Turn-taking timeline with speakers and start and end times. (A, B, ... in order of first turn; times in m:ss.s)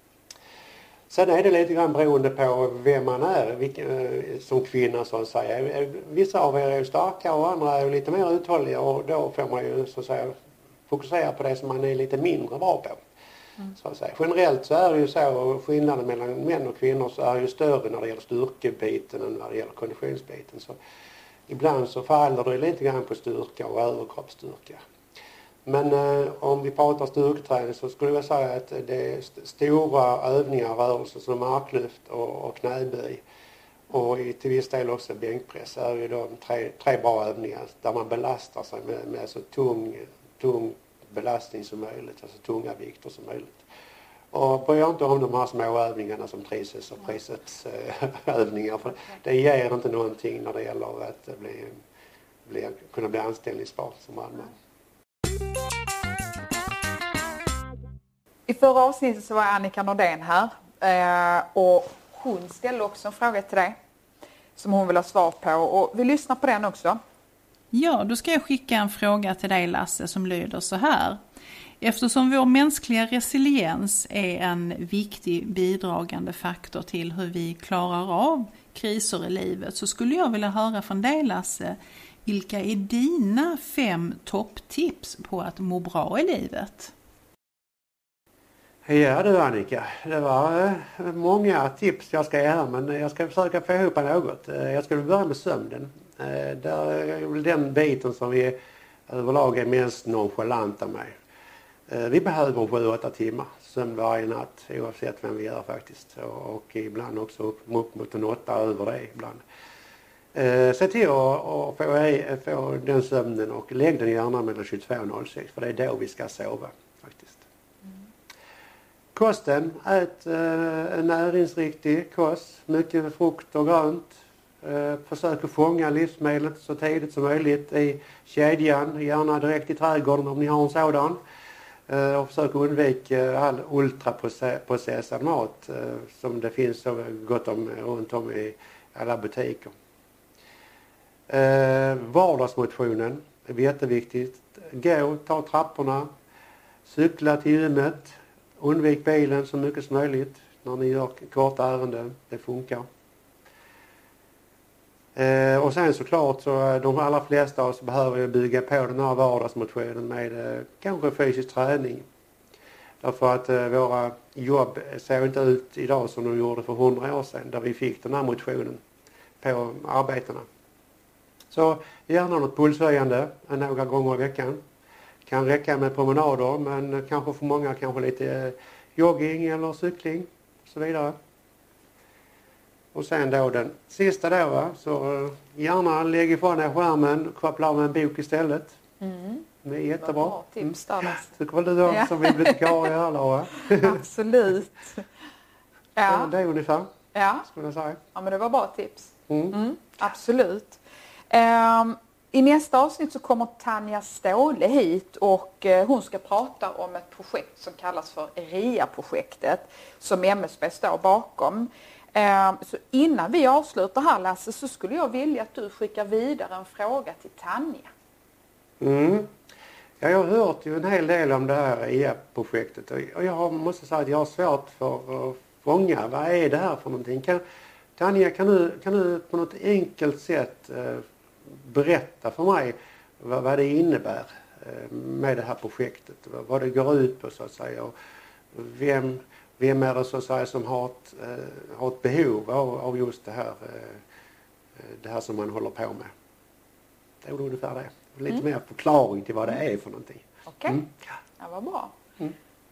0:01.1-0:10.3 A
0:10.9-0:13.0 A
0:13.7-0:20.8 A
0:21.5-0:24.8 A
0:25.6-0:33.2 A
0:33.9-0:43.7 A
0:44.3-0:51.8 A
0:52.4-0:54.5 A
0:58.5-1:03.8 B
1:04.6-1:07.0 B
1:07.7-1:11.2 C
1:11.8-1:26.9 C
1:28.8-1:38.6 A
1:39.1-1:41.1 A
1:41.9-1:49.4 A
1:50.3-1:57.4 A
1:59.1-2:11.2 A
2:11.9-2:19.7 A
2:21.3-2:26.1 A
2:26.8-2:32.9 A
2:35.1-2:42.0 A
2:43.0-2:48.8 A
2:49.4-2:50.5 A
2:51.5-2:54.6 A
2:55.2-3:01.2 A
3:02.9-3:08.8 A
3:09.0-3:09.5 B
3:09.6-3:14.0 A
3:10.0-3:11.3 B
3:11.9-3:12.9 B
3:13.6-3:15.0 B
3:16.0-3:16.3 B
3:16.0-3:16.9 A
3:17.1-3:17.5 B
3:17.4-3:18.0 A
3:18.1-3:37.9 B
3:19.3-3:19.6 A
3:38.8-3:39.3 A
3:40.0-3:47.4 A
3:48.0-3:57.9 A
3:58.5-4:04.0 A
4:04.8-4:06.1 A
4:07.2-4:10.9 A
4:10.5-4:10.8 B
4:11.4-4:11.9 B